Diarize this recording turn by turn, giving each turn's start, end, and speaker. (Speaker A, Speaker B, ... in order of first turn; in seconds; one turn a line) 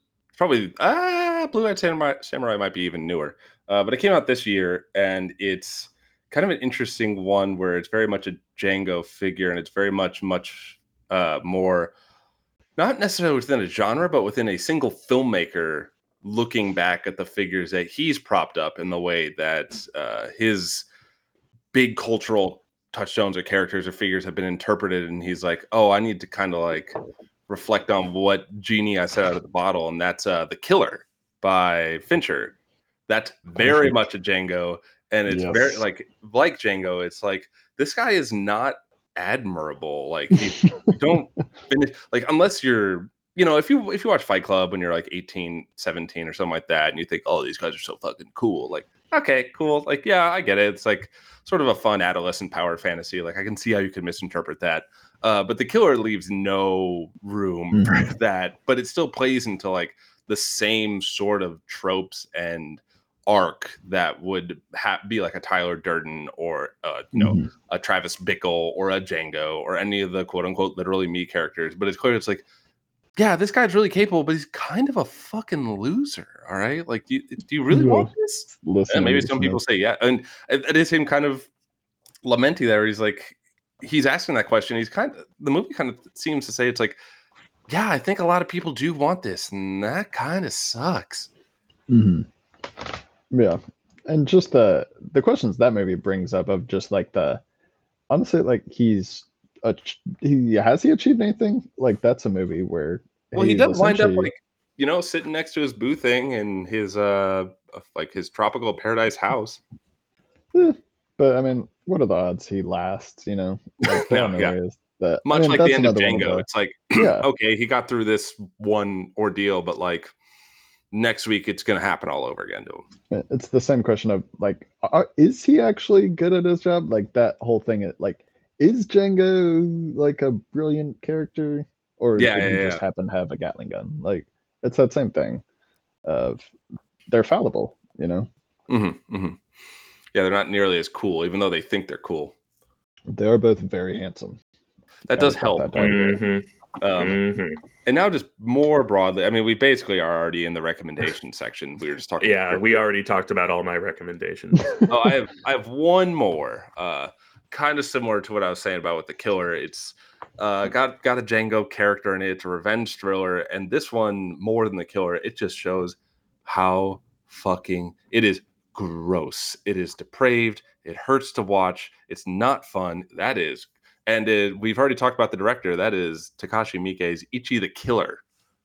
Speaker A: 0.4-11.9
Speaker A: 12.8-20.9
Speaker A: 21.7-32.5
Speaker A: 33.1-72.4
Speaker B: 33.6-34.0
Speaker B: 35.3-35.8
Speaker B: 57.7-58.1
Speaker B: 67.2-67.5
Speaker A: 73.2-81.5
Speaker B: 77.7-79.6
Speaker A: 82.2-87.0
Speaker A: 87.7-91.3
Speaker B: 91.9-92.3
Speaker B: 93.3-97.4
Speaker B: 98.1-104.3
Speaker A: 103.3-109.6
Speaker B: 110.5-117.3
Speaker A: 113.8-114.5
Speaker A: 115.2-120.1
Speaker A: 120.9-122.9
Speaker B: 123.1-135.4
Speaker A: 132.2-132.8
Speaker B: 136.1-136.5
Speaker B: 137.1-138.3
Speaker A: 138.7-139.4
Speaker A: 140.1-142.3
Speaker B: 143.1-144.4
Speaker A: 145.1-146.2
Speaker B: 145.1-146.1
Speaker C: 145.8-146.4
Speaker A: 146.8-147.2
Speaker C: 147.0-147.6
Speaker A: 147.8-152.8
Speaker C: 152.2-154.8
Speaker A: 154.9-178.2